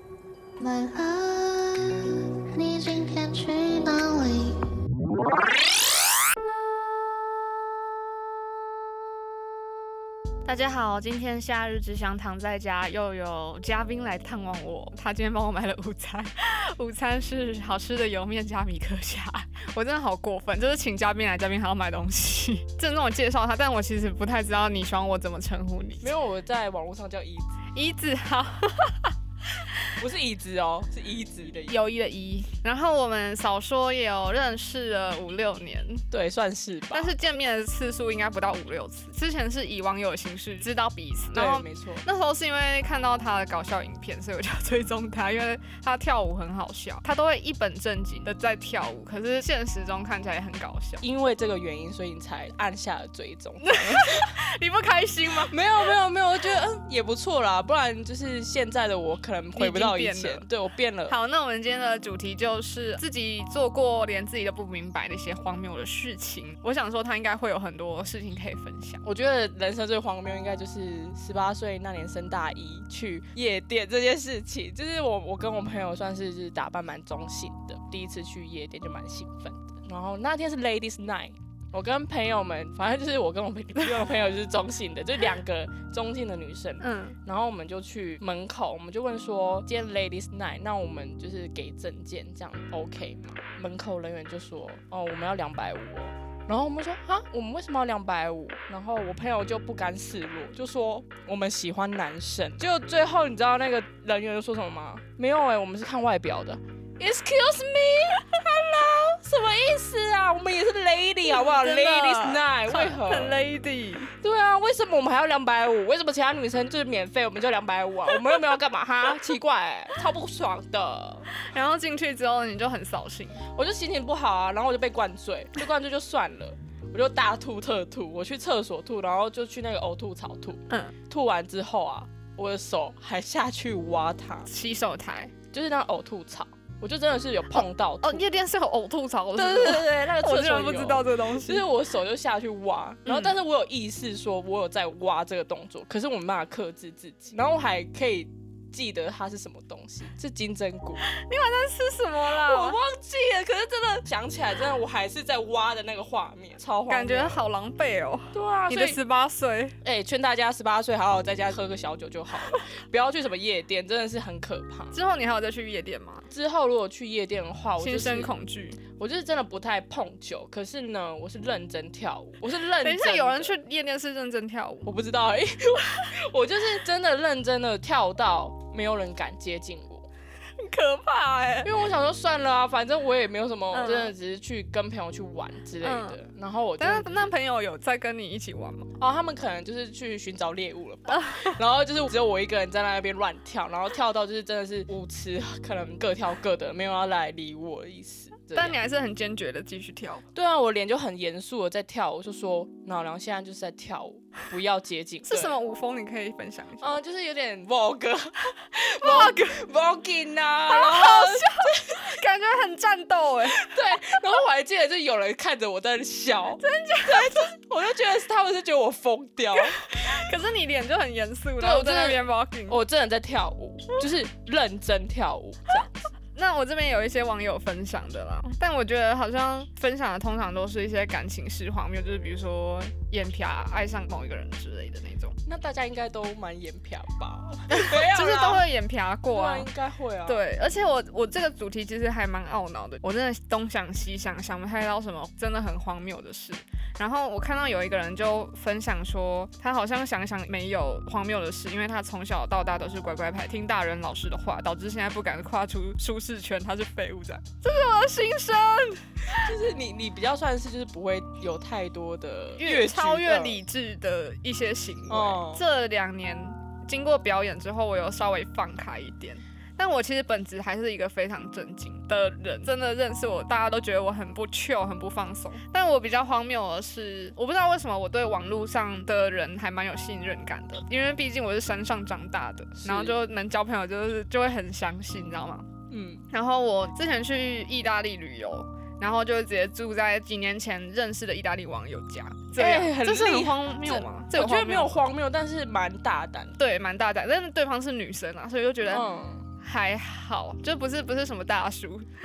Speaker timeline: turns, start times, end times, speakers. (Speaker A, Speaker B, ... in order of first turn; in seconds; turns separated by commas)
Speaker A: 0.6-4.6, Speaker B: 10.4-26.1, Speaker C: 26.0-27.6, Speaker B: 27.7-29.1, Speaker C: 30.0-31.8, Speaker B: 31.7-36.0, Speaker C: 36.1-37.1, Speaker B: 36.9-51.0, Speaker C: 41.3-42.0, Speaker C: 51.0-54.4, Speaker B: 53.6-55.6, Speaker C: 55.5-61.1, Speaker B: 59.5-60.4, Speaker B: 61.1-69.0, Speaker C: 69.0-113.4, Speaker B: 86.8-87.2, Speaker B: 111.3-114.1, Speaker C: 114.2-121.3, Speaker B: 121.3-123.4, Speaker C: 123.5-134.5, Speaker B: 134.5-135.3, Speaker C: 135.5-138.2, Speaker B: 138.0-141.6, Speaker C: 139.4-151.1, Speaker B: 143.1-143.3, Speaker B: 151.1-152.8, Speaker C: 152.3-157.4, Speaker B: 156.9-159.8, Speaker C: 158.3-159.0, Speaker C: 159.8-164.9, Speaker B: 164.9-166.3, Speaker C: 166.3-173.5, Speaker B: 167.8-168.8, Speaker B: 172.8-174.9, Speaker C: 174.8-180.1, Speaker B: 180.6-181.7, Speaker C: 181.6-187.3, Speaker B: 183.7-184.1, Speaker B: 185.8-186.2, Speaker B: 186.8-188.9, Speaker C: 189.0-198.8, Speaker B: 191.1-191.5, Speaker B: 198.5-200.2, Speaker C: 200.3-205.6, Speaker B: 205.2-206.9, Speaker C: 206.8-212.1, Speaker B: 209.0-209.6, Speaker B: 210.7-214.2, Speaker C: 213.6-220.2, Speaker B: 216.6-217.5, Speaker B: 219.8-222.8, Speaker C: 221.6-225.9, Speaker B: 226.3-235.4, Speaker C: 235.4-238.6, Speaker B: 237.7-239.7, Speaker C: 239.3-240.4, Speaker B: 240.2-259.5, Speaker C: 259.3-263.6, Speaker B: 262.6-285.7, Speaker C: 265.1-265.6, Speaker C: 282.8-283.2, Speaker C: 285.9-286.2, Speaker B: 286.3-295.0, Speaker C: 292.6-296.6, Speaker B: 296.6-299.0, Speaker C: 298.9-299.4, Speaker B: 299.6-302.1